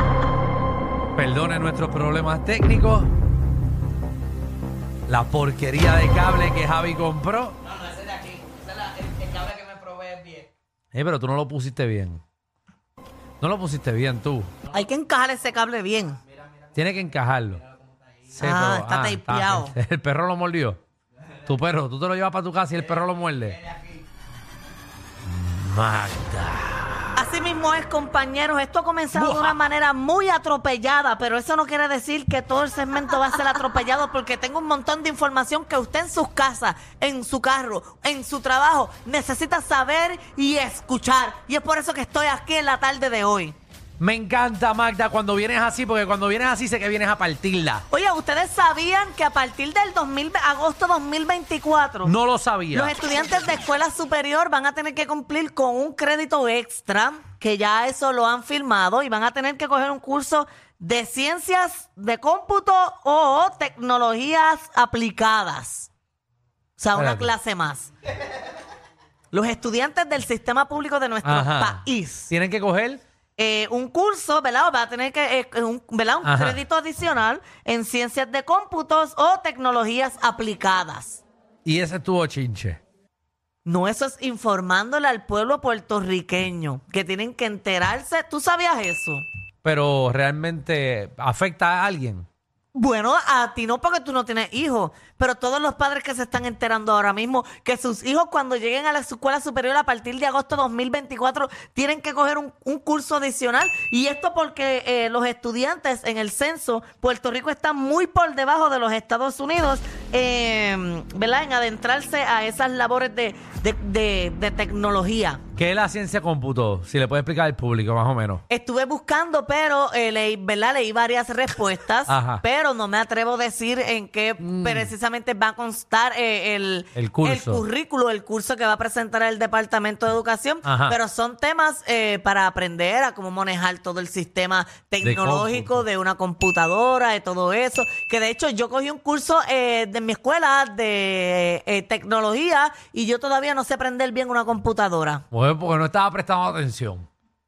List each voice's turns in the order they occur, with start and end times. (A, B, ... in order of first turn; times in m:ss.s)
0:01.2-0:03.1 A
0:05.1-0:07.6 A
0:07.8-0:10.4 B
0:10.9-0:12.2 A
0:13.4-0:14.5 A
0:14.7-0:16.2 C
0:16.7-0:17.6 A
0:18.3-0:20.8 A
0:18.4-0:19.7 C
0:21.4-0:23.6 A
0:25.2-0:27.1 A
0:27.2-0:43.6 C
0:29.1-0:29.6 A
0:44.0-0:47.8 A
0:47.9-0:52.1 C
0:52.0-0:52.9 A
0:52.7-1:05.9 C
1:06.8-1:07.9 C
1:06.9-1:07.3 A
1:09.3-1:12.3 C
1:11.2-1:13.0 A
1:13.4-1:21.2 C
1:16.2-1:16.6 A
1:21.6-1:22.8 A
1:23.6-1:29.2 C
1:29.6-1:32.2 A
1:32.7-1:55.4 C
1:55.6-1:58.4 A
1:58.5-2:25.2 C
2:02.1-2:02.4 A
2:04.4-2:04.9 A
2:06.9-2:07.6 A
2:10.6-2:11.0 A
2:15.0-2:15.8 A
2:25.3-2:27.1 A